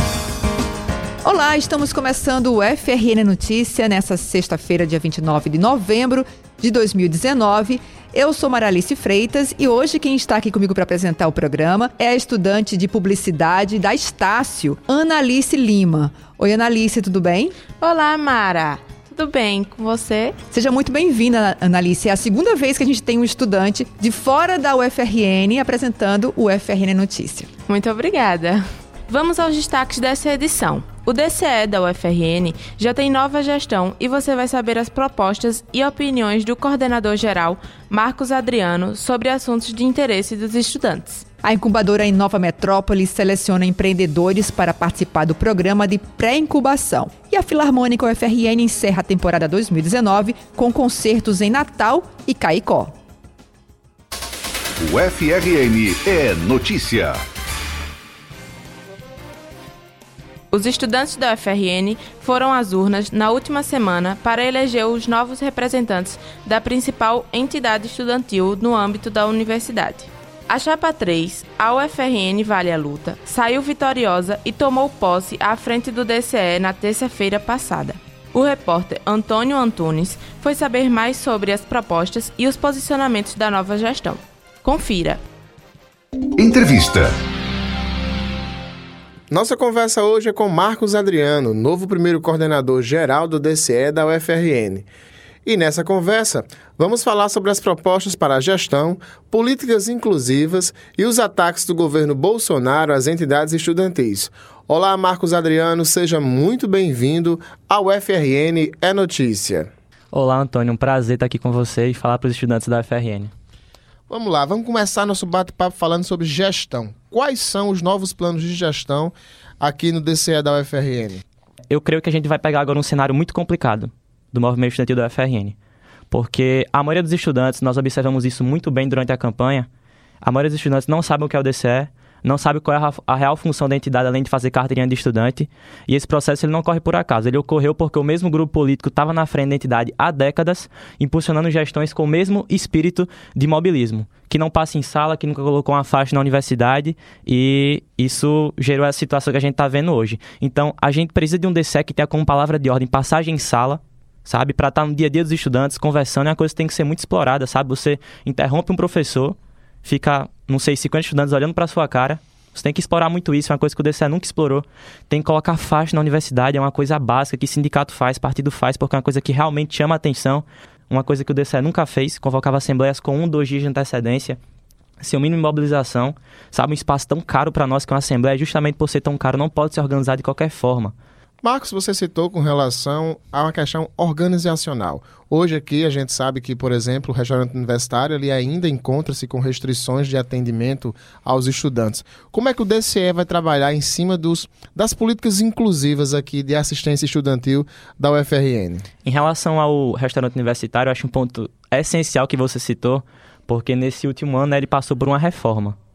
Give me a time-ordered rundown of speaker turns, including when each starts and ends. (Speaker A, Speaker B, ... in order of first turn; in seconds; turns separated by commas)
Speaker A: 1.2-17.6, Speaker B: 17.8-20.4, Speaker A: 20.5-27.5, Speaker B: 27.7-41.3, Speaker A: 41.4-53.0, Speaker C: 54.8-57.2, Speaker B: 60.5-85.2, Speaker C: 86.4-87.1, Speaker D: 89.3-94.9, Speaker D: 95.5-109.7, Speaker E: 110.1-113.3, Speaker D: 114.1-121.2, Speaker E: 121.7-125.6, Speaker E: 126.1-129.7, Speaker E: 130.2-174.4, Speaker E: 175.0-180.9, Speaker D: 181.4-198.9, Speaker E: 199.0-205.8